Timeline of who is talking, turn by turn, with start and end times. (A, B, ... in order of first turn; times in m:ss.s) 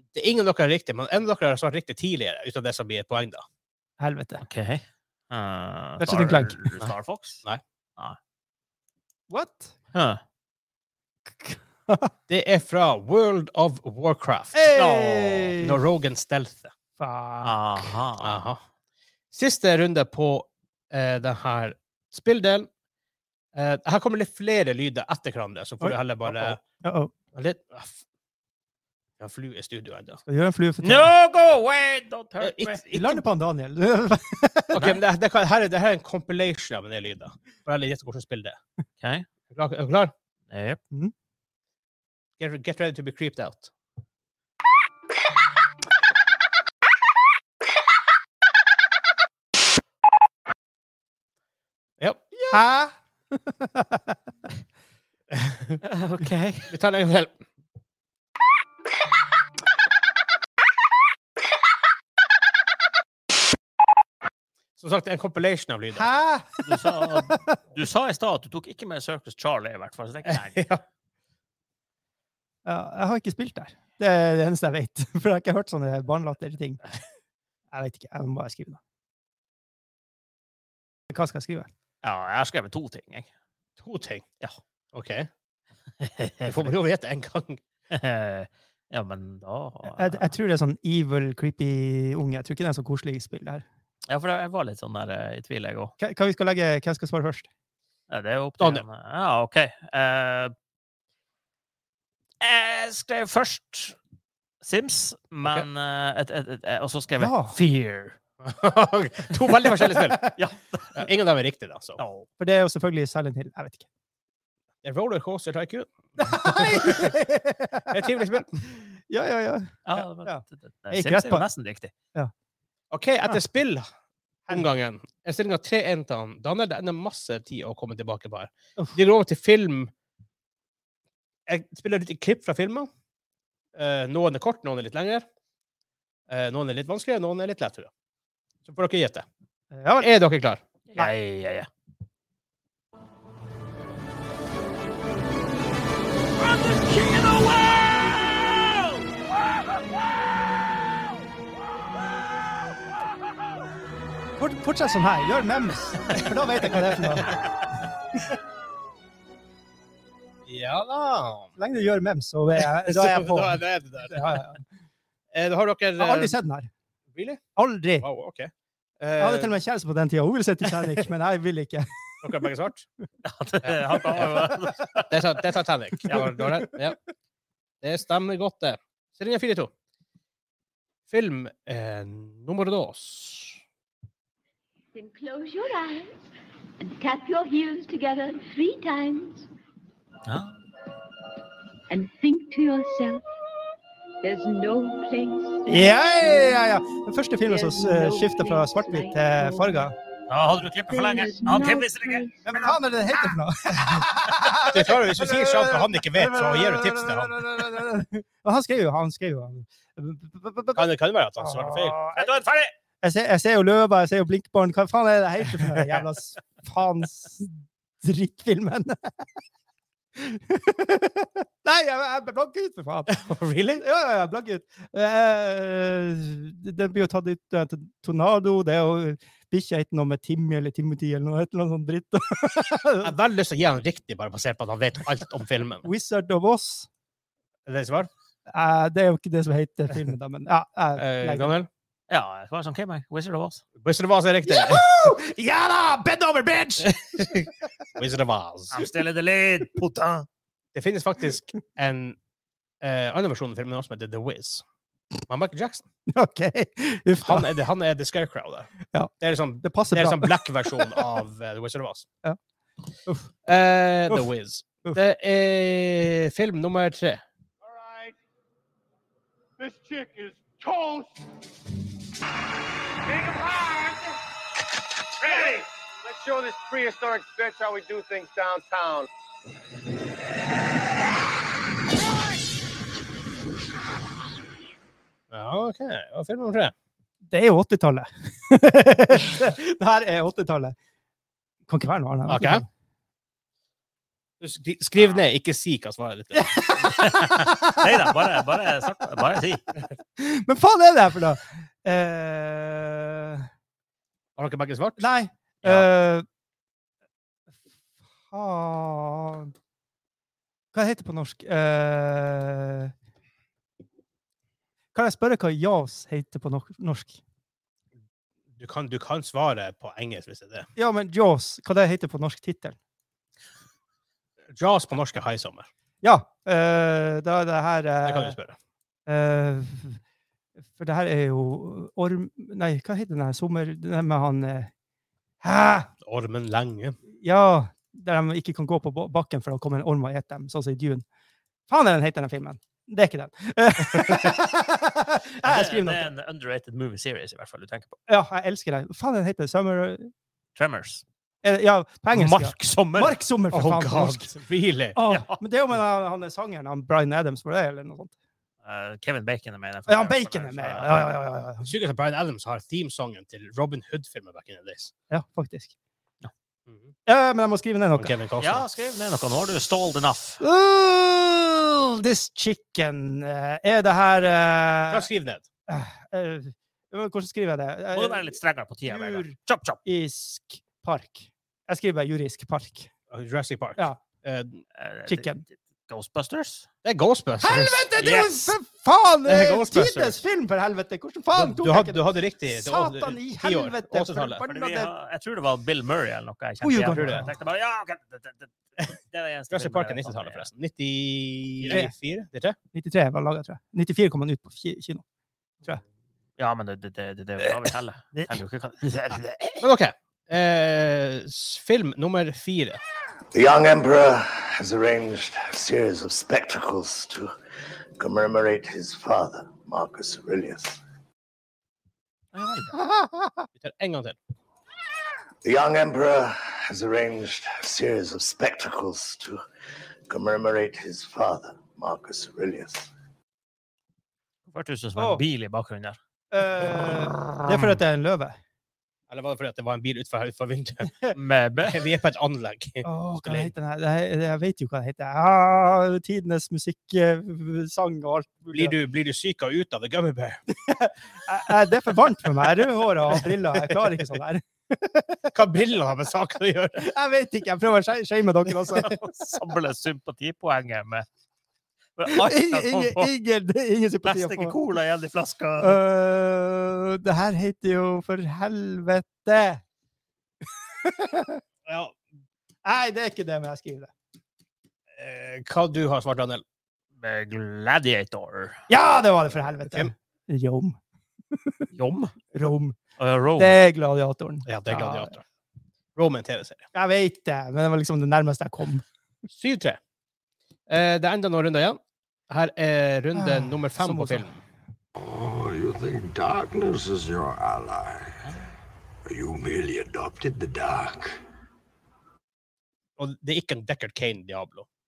0:00.1-0:03.4 A
0:04.0-0:04.4 B
0:04.4-0:07.4 C
0:06.0-0:06.6 B
0:09.3-0:09.8 B
0:09.9-0:10.2 C
0:11.3-0:12.1 B
0:12.3-0:14.7 A
0:14.5-0:15.8 B
0:14.8-0:15.5 C
0:15.6-0:16.7 A
0:17.0-0:17.9 B
0:17.4-0:18.4 C
0:18.2-0:18.6 A
0:19.3-0:22.7 A
0:23.6-0:26.6 A
0:25.8-0:27.1 B
0:27.3-0:28.0 A
0:29.2-0:30.2 A
0:30.3-0:31.1 B
0:30.8-0:32.8 C
0:32.4-0:33.2 A
0:32.9-0:34.9 B
0:34.7-0:38.6 A
0:39.0-0:39.3 C
0:39.5-0:40.1 A
0:40.5-0:40.8 C
0:42.4-0:43.7 A
0:52.0-0:52.3 A
0:52.5-0:54.2 B
0:55.3-0:55.8 A
0:55.8-0:56.7 C
0:56.7-0:57.4 A
1:04.8-1:06.1 A
1:05.9-1:07.6 B
1:06.6-1:10.7 C
1:10.3-1:10.8 A
1:12.6-1:16.8 B
1:17.7-1:18.8 B
1:21.1-1:21.7 B
1:22.0-1:23.3 C
1:23.8-1:24.2 A
1:24.9-1:25.3 A
1:26.0-1:26.7 C
1:26.4-1:27.6 A
1:27.9-1:30.3 C
1:30.0-1:33.7 B
1:34.1-1:35.9 C
1:36.0-1:37.5 B
1:38.1-1:40.5 C
1:38.6-1:38.8 A
1:42.4-1:44.0 C
1:44.6-1:48.2 C
1:47.2-1:47.6 B
1:48.4-1:50.2 A
1:50.4-1:51.1 C
1:51.0-1:52.0 A
1:52.0-1:52.3 C
1:52.4-1:53.9 B
1:54.8-1:57.2 A
1:56.2-2:01.5 B
1:57.9-1:58.6 A
1:59.9-2:01.9 C
2:02.9-2:03.9 A
2:04.5-2:09.9 A
2:11.5-2:12.9 A
2:13.8-2:15.2 A
2:16.3-2:17.9 A
2:18.6-2:19.3 A
2:19.7-2:20.1 B
2:20.0-2:20.6 A
2:20.9-2:21.7 C
2:34.4-2:37.3 B
2:36.6-2:37.3 A
2:40.5-2:41.6 A
2:41.6-2:44.6 B
2:42.6-2:44.4 A
2:45.3-2:46.4 A
2:46.0-2:46.7 B
2:47.1-2:47.4 A
2:47.6-2:48.1 B
2:48.0-2:49.6 A
2:49.2-2:51.9 B
2:52.2-2:52.8 A
2:53.2-2:55.3 C
2:54.1-2:54.7 B
2:55.1-2:57.0 A
2:57.8-2:59.7 A
3:01.1-3:03.6 A
3:04.9-3:06.1 D
3:06.8-3:09.5 D
3:10.3-3:10.5 C
3:11.9-3:13.2 D
3:14.2-3:16.5 D
3:15.7-3:20.0 B
3:17.5-3:19.9 D
3:20.3-3:22.5 C
3:20.9-3:22.7 D
3:22.5-3:32.3 B
3:24.7-3:27.5 A
3:30.8-3:32.0 A
3:32.2-3:32.7 C
3:33.0-3:39.3 B
3:40.2-3:43.2 B
3:43.1-3:43.8 A
3:43.8-3:53.1 B
3:53.0-3:55.9 A
3:55.8-3:56.9 B
3:57.7-3:58.1 A
3:58.5-4:01.5 B
4:01.0-4:01.7 A
4:02.1-4:03.6 C
4:03.8-4:04.9 A
4:04.5-4:07.5 B
4:06.8-4:08.8 A
4:08.7-4:10.3 C
4:10.8-4:12.2 A
4:12.8-4:14.6 A
4:15.3-4:15.8 A
4:16.1-4:17.6 B
4:17.2-4:18.7 A
4:18.9-4:21.0 B
4:19.2-4:22.1 A
4:23.5-4:27.2 A
4:27.6-4:28.2 E
4:29.6-4:31.2 E
4:33.1-4:34.2 E
4:35.2-4:39.1 E
4:45.3-4:46.7 A
4:47.3-4:50.8 B
4:51.7-4:52.7 B
4:52.3-4:52.6 A
4:54.4-4:56.5 A
4:56.3-4:58.3 B
4:57.0-4:59.6 C
5:00.2-5:03.5 B
5:04.4-5:05.1 A
5:05.0-5:06.3 B
5:08.3-5:09.5 B
5:10.7-5:12.9 B
5:14.9-5:17.2 B
5:18.6-5:20.7 A
5:20.8-5:22.8 B
5:24.6-5:25.7 A
5:26.0-5:28.4 B
5:28.0-5:28.6 A
5:29.1-5:30.0 B
5:30.8-5:34.7 B
5:35.4-5:35.9 B
5:36.0-5:37.0 A
5:37.2-5:41.0 B
5:41.7-5:46.1 B
5:43.8-5:44.4 A
5:45.4-5:48.0 C
5:48.1-5:50.1 B
5:50.6-5:51.0 C
5:51.4-5:54.3 B
5:52.1-5:53.2 C
5:53.5-5:55.0 A
5:55.0-5:58.1 B
5:55.1-5:55.4 C
5:58.6-6:01.1 C
5:59.9-6:01.7 B
6:01.6-6:04.9 A
6:05.1-6:05.7 B
6:06.7-6:06.9 A
6:07.1-6:08.2 B
6:08.0-6:08.6 A
6:08.4-6:10.4 C
6:10.4-6:15.1 B
6:14.9-6:15.4 A
6:15.7-6:19.3 B
6:17.9-6:19.8 C
6:19.8-6:22.9 B
6:23.1-6:24.6 A
6:23.8-6:24.0 B
6:24.8-6:25.3 C
6:25.1-6:25.4 B
6:25.9-6:26.7 C
6:26.8-6:27.8 A
6:27.4-6:34.9 B
6:28.0-6:28.5 C
6:29.3-6:30.1 A
6:31.3-6:34.4 A
6:34.5-6:40.5 C
6:36.6-6:37.3 B
6:39.5-6:42.6 A
6:41.6-6:41.9 B
6:42.7-6:45.0 B
6:46.4-6:49.6 C
6:49.6-6:52.8 A
6:53.3-6:57.3 F
6:58.0-7:00.8 F
7:02.3-7:02.8 C
7:02.7-7:03.5 B
7:03.6-7:04.2 A
7:05.4-7:09.4 F
7:10.1-7:12.9 F
7:14.5-7:16.0 C
7:15.0-7:15.2 B
7:16.3-7:18.4 B
7:19.1-7:20.9 A
7:21.1-7:21.8 C
7:21.6-7:23.5 A
7:22.8-7:28.8 B
7:28.5-7:30.4 A
7:30.7-7:35.3 B
7:33.1-7:34.0 A
7:35.3-7:36.9 A
7:36.8-7:39.3 B
7:39.2-7:41.1 C
7:42.0-7:43.1 C
7:42.1-7:44.6 B
7:44.0-7:45.8 C
7:45.6-7:49.6 B
7:50.5-7:51.4 B
7:51.7-7:52.0 A
7:52.6-7:53.9 B
7:55.0-7:56.4 A
7:57.0-7:58.6 C
7:58.7-8:00.8 B
8:01.3-8:01.6 B
8:01.8-8:02.1 C
8:02.3-8:02.8 B
8:03.0-8:03.6 C
8:03.4-8:05.1 B
8:04.5-8:05.2 A
8:06.0-8:06.7 A
8:06.7-8:08.8 B
8:09.3-8:09.8 A
8:10.7-8:14.4 A
8:13.1-8:14.4 B
8:15.0-8:18.4 G
8:19.1-8:21.2 G
8:23.0-8:24.7 A